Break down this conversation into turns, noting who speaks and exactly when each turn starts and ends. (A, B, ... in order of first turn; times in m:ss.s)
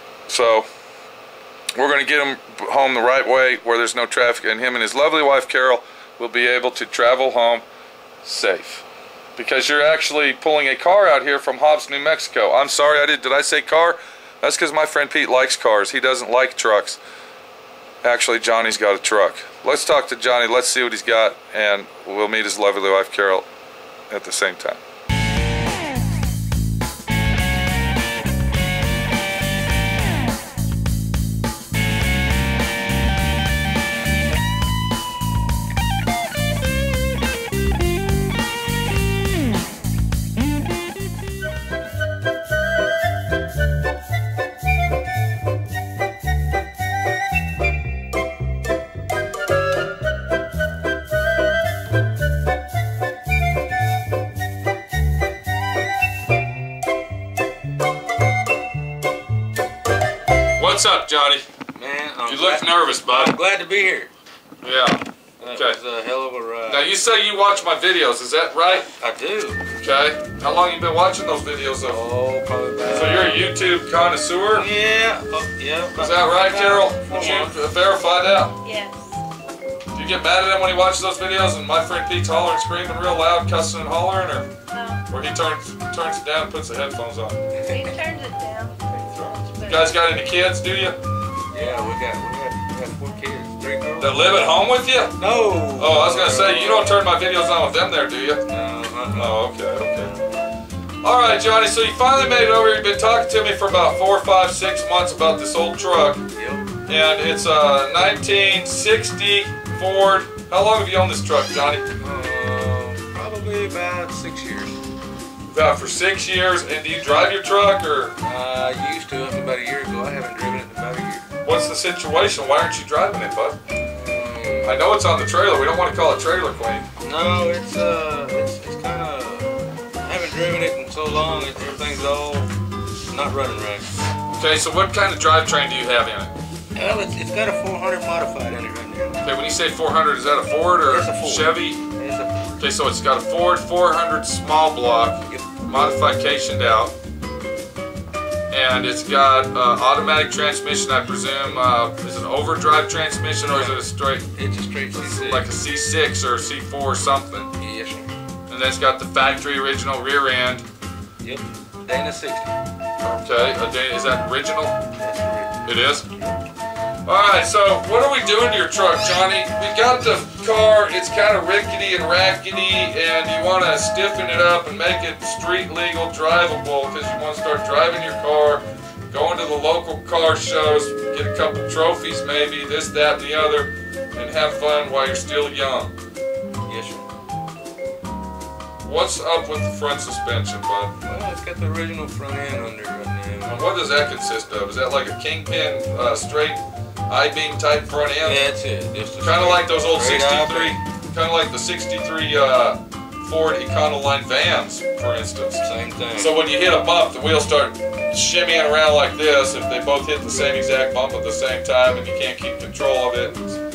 0:00.3-0:00.7 A
0:01.7-0:07.6 A
0:08.2-0:08.8 A
0:09.4-0:17.0 A
0:18.0-0:23.5 A
0:24.1-0:24.8 A
1:00.6-1:01.4 A
1:01.8-1:04.1 B
1:02.2-1:03.4 A
1:04.6-1:05.8 A
1:05.4-1:06.9 B
1:06.7-1:08.9 A
1:08.9-1:09.6 B
1:09.8-1:12.0 A
1:11.8-1:13.4 B
1:12.9-1:14.7 A
1:14.5-1:17.6 B
1:16.0-1:18.6 A
1:18.6-1:19.2 C
1:19.9-1:24.5 A
1:24.7-1:25.0 C
1:25.1-1:27.4 A
1:27.7-1:30.0 C
1:29.1-1:31.0 A
1:31.5-1:34.4 B
1:34.0-1:35.2 A
1:35.2-1:37.0 B
1:35.8-1:38.4 A
1:38.5-1:39.4 B
1:39.1-1:40.1 A
1:41.0-1:46.2 A
1:46.3-1:46.7 B
1:46.8-1:51.9 A
1:52.0-1:54.8 B
1:55.5-1:58.2 A
1:58.2-2:01.2 B
2:01.4-2:03.6 A
2:03.8-2:04.8 B
2:04.6-2:06.8 A
2:07.0-2:12.5 B
2:13.1-2:13.9 B
2:14.3-2:16.3 A
2:16.7-2:19.2 B
2:19.2-2:21.8 A
2:20.8-2:22.5 B
2:22.6-2:26.9 A
2:25.3-2:25.6 B
2:28.5-2:34.3 A
2:33.5-2:35.5 B
2:34.9-2:37.5 A
2:37.6-2:38.1 B
2:38.5-2:40.6 A
2:41.2-2:42.5 B
2:43.0-2:44.8 A
2:45.0-2:46.3 B
2:45.6-2:46.0 A
2:47.0-3:05.9 A
3:06.7-3:07.0 B
3:08.8-3:10.9 A
3:11.0-3:13.6 B
3:13.4-3:18.4 A
3:18.2-3:20.8 B
3:19.2-3:33.6 A
3:25.6-3:26.3 B